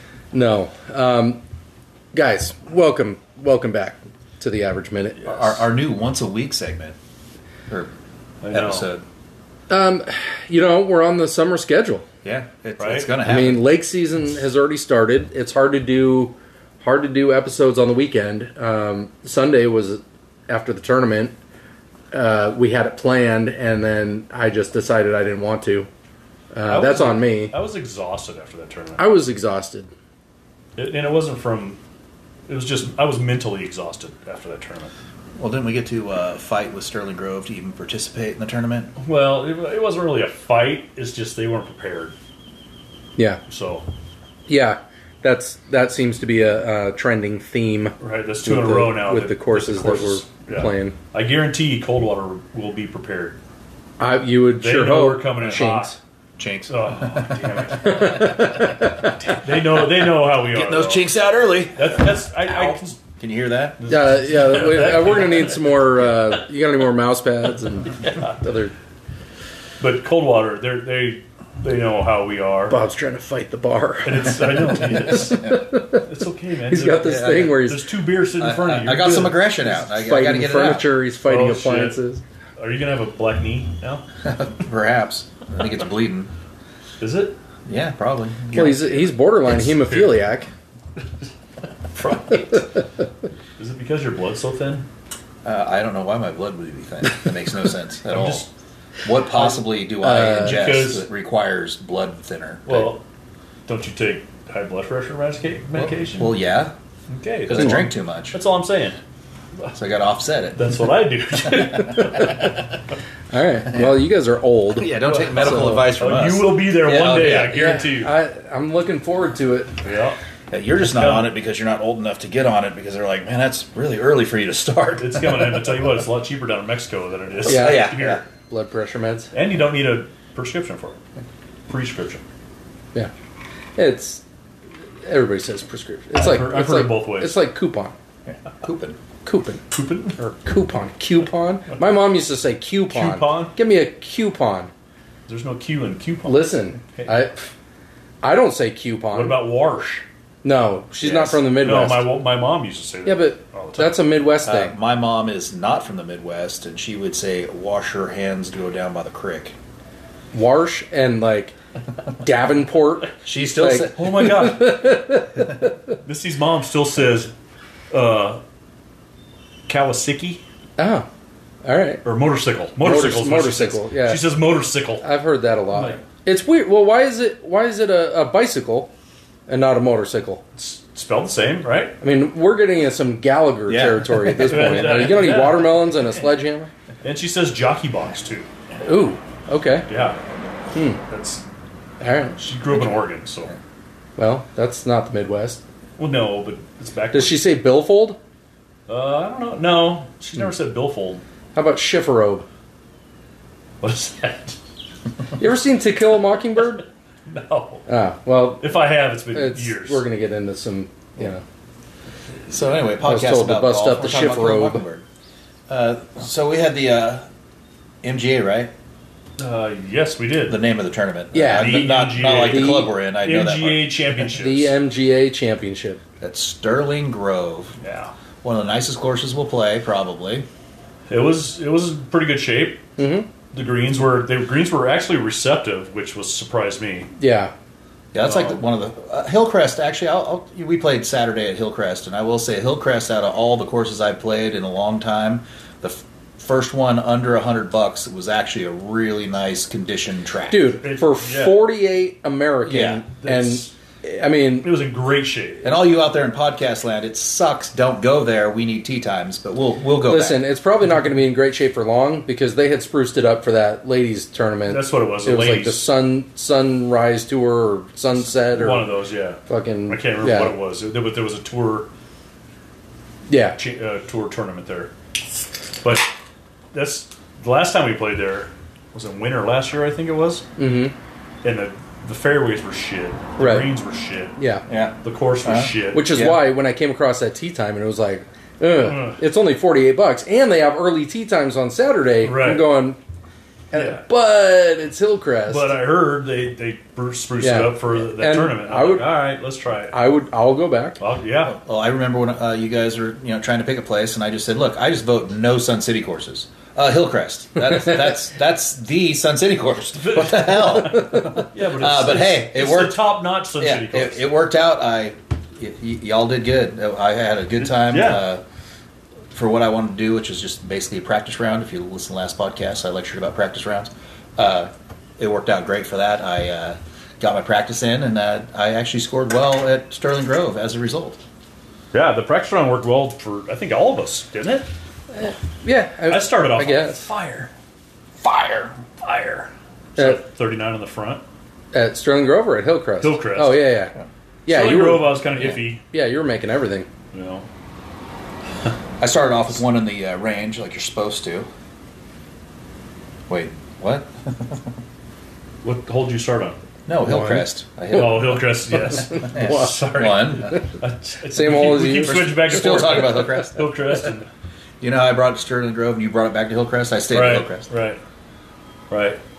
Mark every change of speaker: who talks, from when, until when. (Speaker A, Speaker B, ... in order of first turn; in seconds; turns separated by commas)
Speaker A: 0.3-1.4, Speaker A: 2.1-5.5, Speaker B: 5.2-7.0, Speaker C: 8.4-8.9, Speaker B: 8.5-9.0, Speaker A: 9.7-12.0, Speaker B: 12.2-13.6, Speaker C: 12.8-13.1, Speaker A: 13.2-21.3, Speaker A: 22.1-25.9, Speaker A: 26.5-27.5, Speaker C: 26.7-29.1, Speaker A: 29.0-29.9, Speaker C: 30.8-31.8, Speaker C: 32.5-34.9, Speaker B: 35.4-38.9, Speaker C: 39.0-42.1, Speaker C: 43.5-43.9, Speaker A: 44.5-51.0, Speaker C: 48.0-53.4, Speaker A: 54.0-56.0, Speaker C: 54.6-55.9, Speaker B: 56.4-58.0, Speaker C: 56.7-58.5, Speaker A: 57.8-59.1, Speaker C: 59.2-61.1, Speaker B: 60.5-63.8, Speaker C: 61.7-63.0, Speaker C: 63.8-65.8, Speaker A: 63.9-68.7, Speaker C: 68.0-68.3, Speaker C: 69.8-72.8, Speaker A: 72.7-76.0, Speaker C: 74.0-79.5, Speaker A: 76.7-77.9, Speaker B: 77.0-77.6, Speaker B: 78.3-81.0, Speaker A: 79.8-82.2, Speaker C: 81.2-82.0, Speaker C: 82.6-84.0, Speaker B: 84.2-86.3, Speaker C: 87.0-87.4, Speaker B: 87.7-89.0, Speaker A: 88.5-90.5, Speaker C: 89.6-90.2, Speaker C: 91.9-92.7, Speaker C: 93.6-94.9, Speaker B: 95.4-98.5, Speaker C: 98.1-98.5, Speaker B: 99.0-102.9, Speaker A: 100.0-100.6, Speaker C: 100.4-101.1, Speaker C: 102.7-103.0, Speaker C: 103.7-106.3, Speaker B: 105.8-106.7, Speaker C: 107.1-109.0, Speaker B: 107.5-108.4, Speaker B: 109.7-110.6, Speaker C: 110.5-112.5, Speaker A: 113.3-115.9, Speaker B: 114.8-117.7, Speaker C: 115.0-118.1, Speaker A: 117.5-119.7, Speaker C: 119.8-120.2, Speaker B: 120.5-125.6, Speaker C: 120.9-121.3, Speaker C: 125.0-128.2, Speaker B: 127.4-128.2, Speaker A: 127.5-129.3, Speaker C: 129.3-131.0, Speaker C: 131.7-132.2, Speaker A: 133.8-134.2, Speaker A: 135.0-137.9, Speaker C: 136.1-137.4, Speaker B: 138.3-139.0, Speaker A: 139.2-139.6, Speaker C: 139.7-140.2, Speaker A: 140.2-144.7, Speaker C: 142.9-143.5, Speaker C: 145.3-147.1, Speaker A: 146.2-147.4, Speaker A: 148.2-149.4, Speaker C: 149.1-150.0, Speaker A: 150.4-152.1, Speaker B: 151.0-151.4, Speaker C: 151.5-153.9, Speaker A: 153.1-154.7, Speaker B: 154.4-159.6, Speaker A: 160.3-161.5, Speaker A: 162.2-165.7, Speaker B: 163.2-164.3, Speaker C: 163.9-164.8, Speaker C: 166.0-167.3, Speaker C: 167.9-168.4, Speaker C: 169.7-170.4, Speaker A: 170.8-171.1, Speaker A: 171.6-172.0, Speaker C: 172.0-175.1, Speaker A: 172.8-174.2, Speaker A: 175.0-178.9, Speaker C: 175.7-176.0, Speaker A: 179.5-180.4, Speaker C: 180.5-182.0, Speaker A: 182.0-186.7, Speaker B: 183.7-185.0, Speaker C: 184.3-186.1, Speaker C: 187.0-188.5, Speaker A: 188.8-189.9, Speaker C: 189.9-190.2, Speaker A: 190.7-191.0, Speaker C: 191.1-191.4, Speaker A: 192.0-192.4, Speaker C: 192.4-193.5, Speaker A: 194.2-195.6, Speaker C: 196.0-197.5, Speaker A: 197.1-198.2, Speaker C: 198.9-201.2, Speaker A: 201.5-202.4, Speaker C: 203.8-204.6, Speaker A: 205.4-206.8, Speaker C: 207.2-207.9, Speaker A: 207.9-208.7, Speaker C: 208.6-210.0, Speaker A: 209.3-211.4, Speaker B: 212.5-215.0, Speaker A: 213.0-214.8, Speaker B: 215.7-217.3, Speaker B: 218.0-218.7, Speaker C: 219.4-220.6, Speaker B: 220.5-223.9, Speaker A: 221.3-222.9, Speaker C: 221.5-224.7, Speaker A: 224.2-226.0, Speaker B: 226.2-227.8, Speaker C: 227.8-228.1, Speaker B: 228.4-230.4, Speaker C: 231.1-232.8, Speaker A: 233.0-233.3, Speaker C: 233.5-237.1, Speaker A: 237.2-237.5, Speaker B: 238.1-250.7, Speaker C: 238.2-238.6, Speaker A: 250.5-254.7, Speaker C: 250.8-251.6, Speaker B: 252.7-253.0, Speaker C: 253.2-253.7, Speaker C: 254.6-255.8, Speaker B: 255.6-260.4, Speaker A: 260.0-268.9, Speaker C: 264.7-265.9, Speaker C: 268.4-271.9, Speaker A: 269.5-270.5, Speaker A: 273.3-273.6, Speaker C: 273.6-274.9, Speaker C: 275.8-276.1, Speaker C: 276.7-280.5, Speaker A: 280.6-280.9, Speaker C: 281.4-284.3, Speaker A: 283.4-283.7, Speaker A: 284.4-284.6, Speaker B: 284.7-286.4, Speaker C: 285.0-286.1, Speaker A: 285.9-293.0, Speaker C: 288.8-289.2, Speaker C: 292.2-292.7, Speaker A: 293.7-295.8, Speaker C: 293.7-294.1, Speaker C: 295.5-300.0, Speaker A: 297.4-299.1, Speaker A: 299.9-301.0, Speaker C: 301.0-301.6, Speaker B: 301.4-313.0, Speaker C: 310.0-314.3, Speaker B: 313.6-318.4, Speaker C: 317.6-318.3, Speaker B: 319.3-331.2, Speaker C: 331.9-334.7, Speaker A: 335.1-337.0, Speaker C: 336.1-337.5, Speaker B: 338.2-338.8, Speaker C: 339.0-341.2, Speaker A: 341.7-343.9, Speaker C: 343.0-343.8, Speaker A: 344.4-346.9, Speaker C: 344.5-345.8, Speaker C: 347.1-347.4, Speaker B: 349.0-351.5, Speaker B: 353.3-354.7, Speaker C: 355.6-356.6, Speaker B: 356.9-358.4, Speaker A: 357.0-357.5, Speaker C: 357.9-364.3, Speaker B: 359.2-360.6, Speaker A: 359.3-359.7, Speaker A: 361.3-362.8, Speaker B: 362.0-364.1, Speaker B: 364.8-367.7, Speaker C: 367.1-368.0, Speaker C: 368.9-369.2